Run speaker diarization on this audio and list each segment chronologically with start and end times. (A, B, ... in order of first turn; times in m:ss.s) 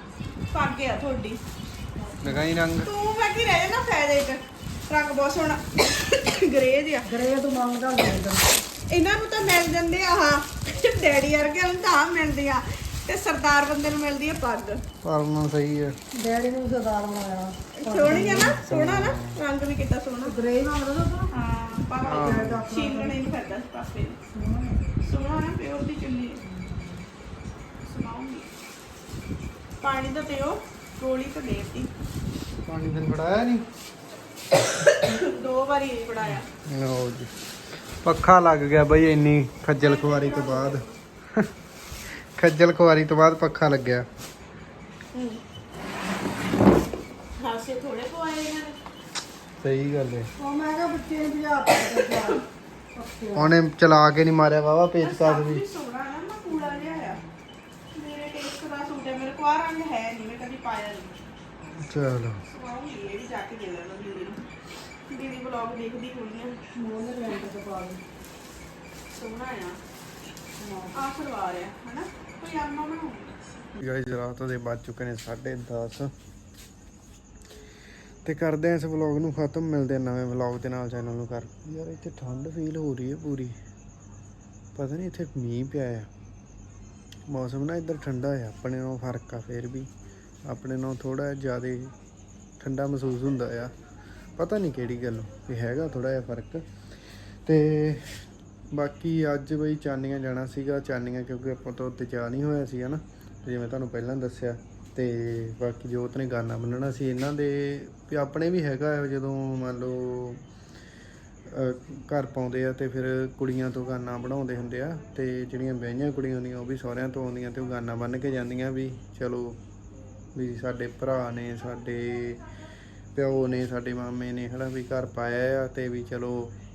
0:00.5-0:01.4 A
0:02.0-0:02.4 B
0:02.2-0:02.9 C
0:02.8-0:07.1 A
0:07.0-0:08.5 B
0:08.9-0:14.8 A
0:15.0-0:16.0 C
0:16.1-0:18.5 B
0:17.8-0:20.4 A
0:18.1-0:19.4 C
0:20.2-0:21.3 B
0:21.3-0:24.2 A
0:22.0-0:22.6 C
0:22.1-0:23.2 B
0:24.3-0:25.0 B
0:25.0-0:26.4 A
0:26.4-0:27.1 B
0:27.8-0:28.5 A
0:29.8-0:31.9 A
0:32.7-0:33.6 C
0:34.8-0:36.5 A
0:36.7-0:37.3 C
0:38.0-0:41.5 C
0:39.8-0:41.0 A
0:42.4-0:44.1 C
0:45.1-0:45.4 A
0:47.4-0:48.8 A
0:49.6-0:50.3 C
0:50.4-0:52.4 B
0:52.0-0:52.4 A
0:53.0-0:53.5 B
0:53.3-0:55.6 C
0:55.0-0:57.2 A
0:57.9-1:01.2 A
1:01.8-1:02.4 C
1:02.5-1:04.4 A
1:05.1-1:06.6 A
1:06.8-1:08.0 B
1:09.1-1:09.8 A
1:10.6-1:11.1 B
1:10.9-1:13.4 A
1:13.8-1:16.1 C
1:18.2-1:23.6 C
1:24.8-1:26.1 C
1:27.3-1:29.9 C
1:30.4-1:31.9 C
1:32.6-1:33.7 C
1:34.4-1:36.6 C
1:37.5-1:50.4 C
1:51.5-1:59.6 C
2:00.4-2:02.4 C
2:03.1-2:06.5 C